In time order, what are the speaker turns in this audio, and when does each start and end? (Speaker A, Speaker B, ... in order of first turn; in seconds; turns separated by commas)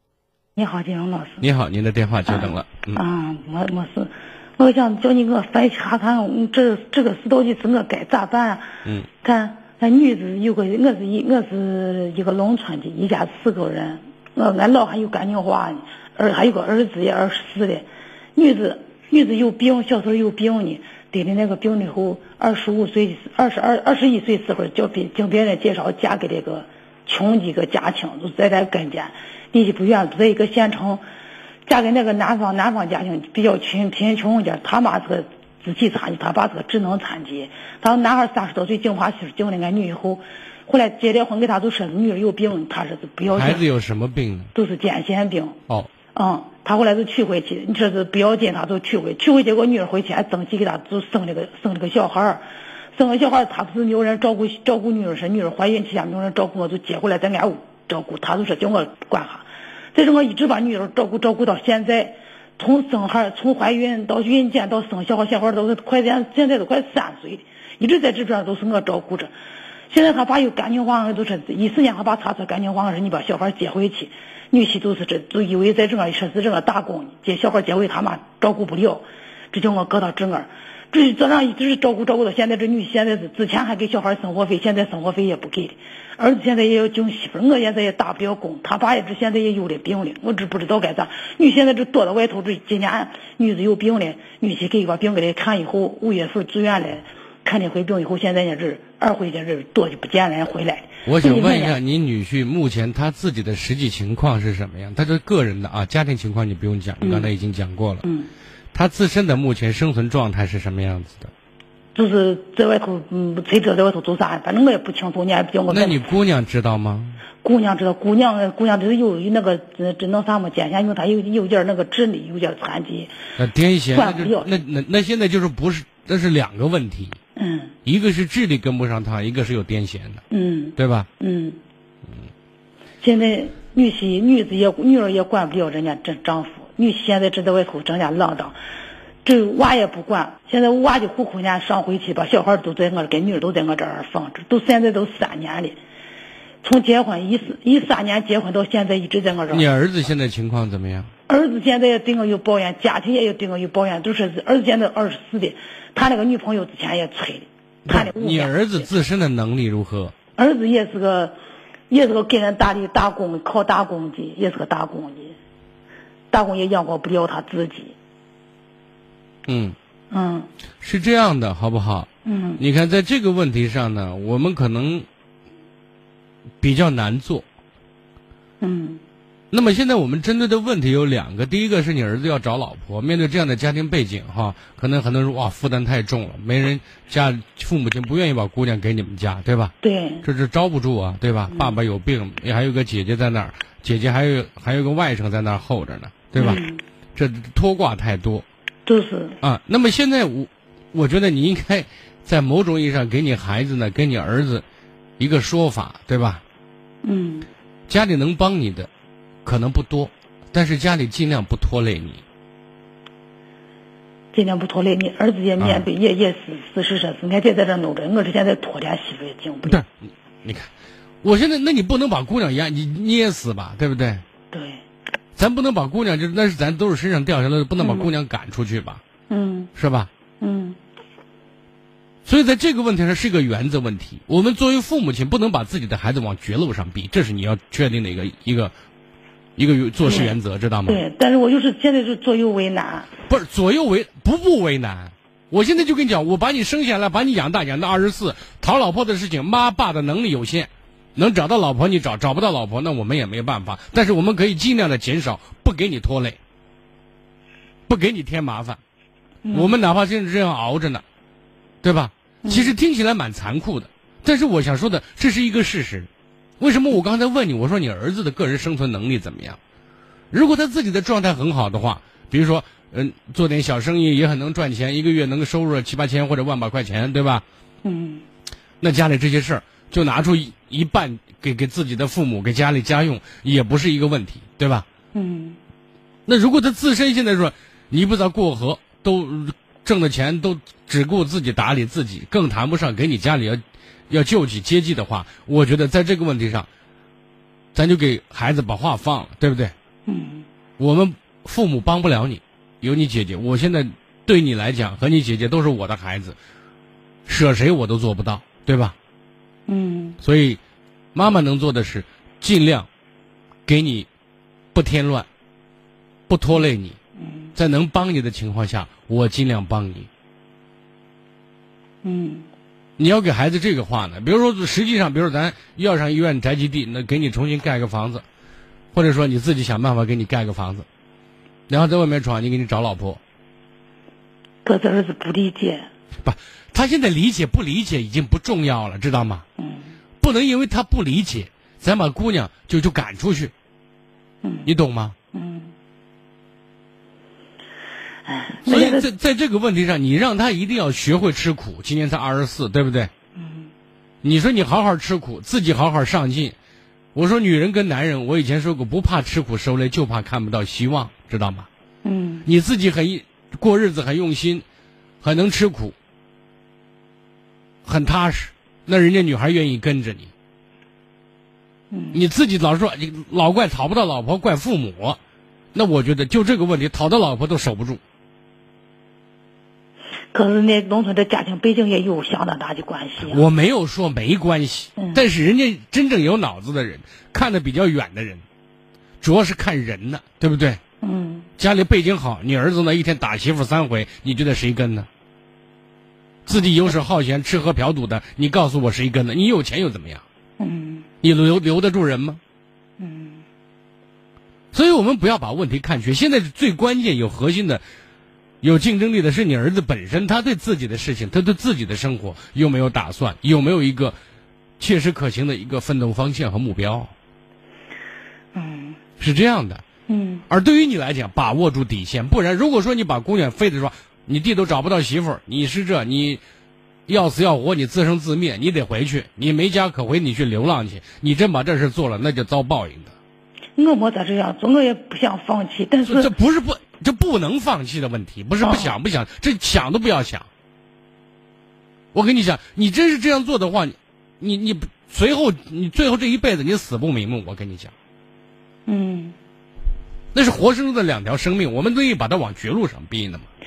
Speaker A: 0.6-1.4, Speaker B: 1.4-3.0, Speaker A: 2.3-8.7, Speaker A: 9.2-31.0, Speaker A: 31.6-43.6, Speaker B: 43.3-44.5, Speaker A: 44.5-45.6, Speaker A: 46.1-52.4, Speaker A: 52.9-69.3, Speaker A: 69.9-101.8, Speaker B: 101.0-108.0, Speaker A: 107.0-107.3, Speaker A: 108.0-108.3, Speaker B: 108.7-111.3, Speaker A: 111.9-116.0, Speaker B: 115.7-117.2, Speaker A: 117.4-123.1, Speaker B: 123.4-127.2, Speaker A: 123.9-124.5, Speaker A: 127.3-127.7, Speaker B: 127.8-130.2, Speaker A: 130.3-131.6, Speaker B: 130.8-131.1, Speaker A: 133.0-138.6, Speaker A: 139.2-145.8, Speaker A: 146.6-149.7, Speaker B: 149.5-151.1, Speaker A: 151.3-158.9, Speaker B: 157.9-160.1, Speaker A: 160.3-161.3, Speaker A: 161.9-165.3, Speaker A: 166.3-167.9, Speaker B: 169.5-169.8, Speaker A: 170.1-170.5, Speaker B: 170.8-172.1, Speaker A: 172.2-172.6, Speaker B: 172.6-175.1, Speaker B: 176.6-177.4, Speaker A: 178.6-179.0, Speaker B: 179.5-196.6, Speaker A: 189.8-190.3, Speaker A: 191.5-191.8, Speaker A: 196.3-196.8, Speaker B: 197.1-198.4, Speaker A: 198.8-199.4, Speaker B: 199.4-204.6, Speaker B: 205.2-206.4, Speaker A: 207.0-207.5, Speaker B: 207.9-208.9, Speaker B: 209.4-212.2, Speaker A: 214.3-219.8, Speaker B: 215.6-215.8, Speaker B: 219.6-219.9, Speaker B: 220.4-220.7, Speaker B: 221.2-224.2, Speaker A: 224.5-224.8, Speaker B: 225.3-229.0, Speaker A: 227.8-228.1, Speaker A: 229.3-229.7, Speaker B: 229.8-230.1, Speaker A: 230.4-230.8, Speaker B: 232.2-238.7, Speaker B: 239.6-241.0, Speaker A: 240.0-240.3, Speaker A: 240.9-243.1, Speaker B: 243.3-256.4, Speaker B: 257.9-258.8, Speaker A: 259.4-259.7, Speaker B: 259.5-261.0, Speaker B: 261.8-266.1, Speaker A: 262.4-262.7, Speaker B: 266.6-269.6, Speaker B: 270.3-277.4, Speaker A: 277.8-278.2, Speaker B: 278.8-284.9, Speaker A: 285.1-285.6, Speaker B: 286.2-296.7, Speaker B: 297.7-299.7, Speaker A: 300.1-300.4, Speaker B: 300.8-306.4, Speaker B: 307.2-308.9, Speaker A: 309.7-310.2, Speaker B: 310.2-310.6, Speaker B: 311.1-312.9, Speaker B: 313.6-314.1, Speaker B: 314.7-315.3, Speaker B: 316.3-317.0, Speaker A: 317.2-317.5, Speaker B: 317.6-320.1, Speaker A: 322.0-322.5, Speaker B: 323.0-328.2, Speaker B: 328.9-330.9, Speaker B: 331.7-333.2, Speaker A: 334.6-335.9, Speaker B: 336.2-339.4, Speaker A: 339.6-339.9, Speaker B: 340.2-343.5, Speaker A: 344.4-344.7, Speaker B: 344.6-345.1, Speaker A: 345.3-345.7, Speaker A: 348.2-349.1, Speaker B: 348.6-353.1, Speaker A: 353.4-353.7, Speaker B: 354.2-356.5, Speaker B: 357.1-361.7, Speaker A: 362.0-362.4, Speaker B: 362.4-364.6, Speaker B: 365.2-365.9, Speaker B: 367.8-370.3, Speaker A: 371.9-372.2, Speaker B: 372.1-375.2, Speaker B: 375.7-378.0, Speaker A: 380.3-383.4, Speaker B: 383.2-388.4, Speaker A: 385.0-385.2, Speaker B: 389.2-390.8, Speaker A: 391.0-391.5, Speaker B: 391.6-395.1, Speaker B: 396.4-400.2, Speaker A: 396.5-396.9, Speaker A: 400.6-401.1, Speaker B: 401.2-402.4, Speaker A: 403.0-403.4, Speaker B: 404.7-407.8, Speaker B: 408.6-414.2, Speaker B: 414.8-417.1, Speaker A: 418.5-419.0, Speaker B: 419.2-419.8, Speaker A: 420.1-420.4, Speaker B: 420.5-426.4, Speaker B: 427.1-433.1, Speaker A: 433.8-436.3, Speaker B: 436.1-440.5, Speaker A: 438.6-438.9, Speaker B: 442.1-447.9, Speaker A: 448.9-449.4, Speaker B: 450.3-453.5